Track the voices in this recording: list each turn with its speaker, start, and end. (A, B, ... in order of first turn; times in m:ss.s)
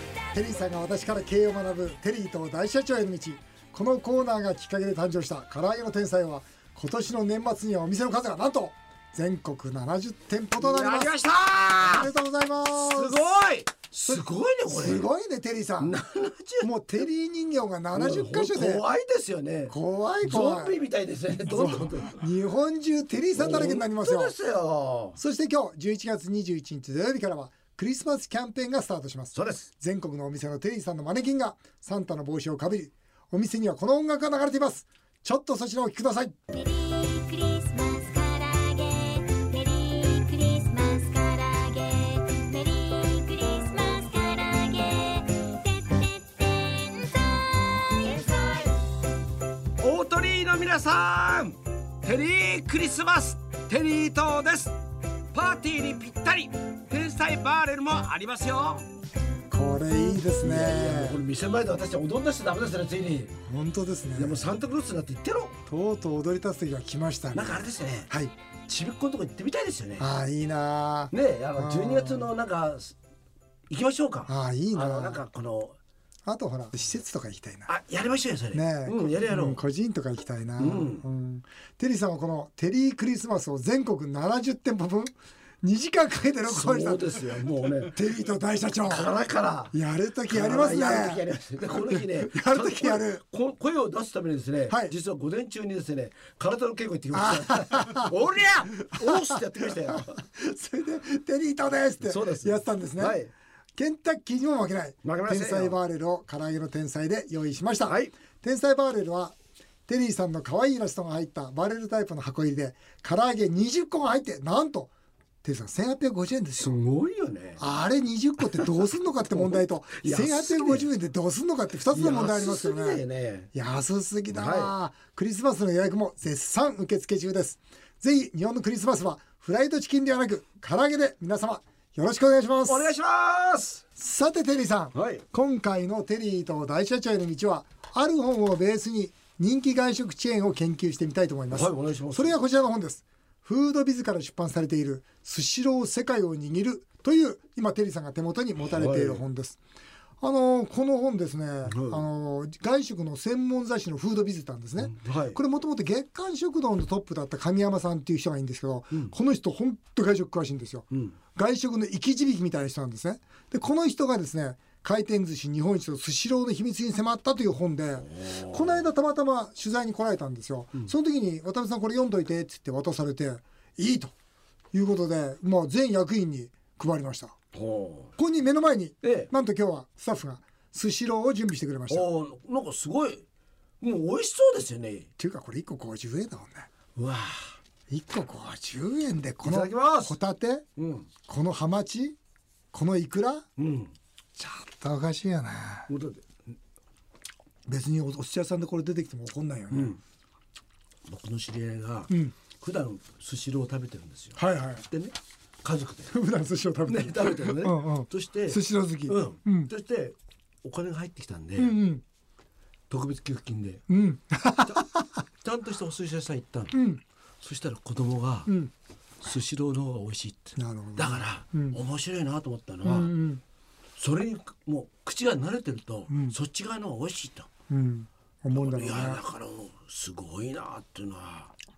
0:00.3-0:11.1 A
0:10.6-0:12.1 B
0:11.8-0:13.2 A
0:12.7-0:15.1 B
0:14.1-0:16.0 A
0:15.8-0:16.7 B
0:16.6-0:18.8 A
0:18.0-0:22.2 B
0:19.7-0:20.7 A
0:21.5-0:24.3 A
0:23.3-0:25.2 B
0:25.2-0:36.4 A
0:29.3-0:29.7 B
0:36.5-0:48.8 C
0:49.8-0:54.7 B
0:55.3-0:58.9 B
0:59.5-1:01.2 A
1:00.4-1:03.3 B
1:03.4-1:04.4 A
1:04.2-1:05.6 B
1:05.7-1:08.3 A
1:07.4-1:08.1 B
1:08.7-1:10.1 B
1:10.0-1:12.3 A
1:11.1-1:12.9 B
1:13.7-1:15.8 B
1:14.3-1:15.2 A
1:16.3-1:17.7 A
1:17.7-1:19.6 B
1:18.5-1:25.1 A
1:20.6-1:21.0 B
1:25.6-1:27.1 A
1:26.5-1:28.0 B
1:27.9-1:29.1 A
1:28.9-1:29.7 B
1:29.7-1:31.2 A
1:30.3-1:40.2 B
1:31.9-1:33.2 A
1:37.1-1:38.1 A
1:38.8-1:43.2 A
1:42.0-1:43.3 B
1:43.8-1:49.4 A
1:45.0-1:45.8 B
1:47.9-1:48.1 B
1:49.9-1:54.9 A
1:55.4-1:56.8 A
1:56.6-1:57.6 B
1:57.6-2:03.0 A
1:59.3-2:00.9 B
2:01.9-2:03.5 B
2:03.5-2:12.9 A
2:04.3-2:04.7 B
2:12.7-2:13.8 B
2:14.0-2:29.6 A
2:15.0-2:15.2 B
2:21.5-2:22.4 B
2:28.6-2:29.2 B
2:30.2-2:54.1 A
2:31.7-2:32.0 B
2:34.9-2:35.4 B
2:48.1-2:48.8 B
2:54.7-2:57.4 A
2:57.5-2:58.1 B
2:58.2-3:02.1 A
2:59.0-2:59.3 B
3:01.9-3:03.2 B
3:03.8-3:05.1 B
3:05.2-3:06.7 A
3:07.0-3:07.6 B
3:07.9-3:10.6 A
3:09.4-3:10.2 B
3:10.8-3:11.1 B
3:11.3-3:12.2 A
3:12.7-3:13.5 A
3:13.6-3:13.9 B
3:14.4-3:15.9 A
3:15.9-3:16.3 B
3:17.7-3:20.0 A
3:19.7-3:20.0 B
3:21.1-3:26.1 B
3:24.4-3:24.8 A
3:26.1-3:29.7 A
3:26.9-3:31.8 B
3:31.6-3:32.0 A
3:32.9-3:33.8 B
3:33.9-3:35.1 A
3:35.4-3:36.7 B
3:36.7-3:37.0 A
3:37.4-3:38.5 B
3:38.5-3:38.7 A
3:39.2-3:43.1 B
3:40.6-3:41.8 A
3:42.8-3:43.4 A
3:44.0-3:47.5 B
3:46.1-3:46.4 A
3:47.7-3:49.2 A
3:48.5-3:51.5 B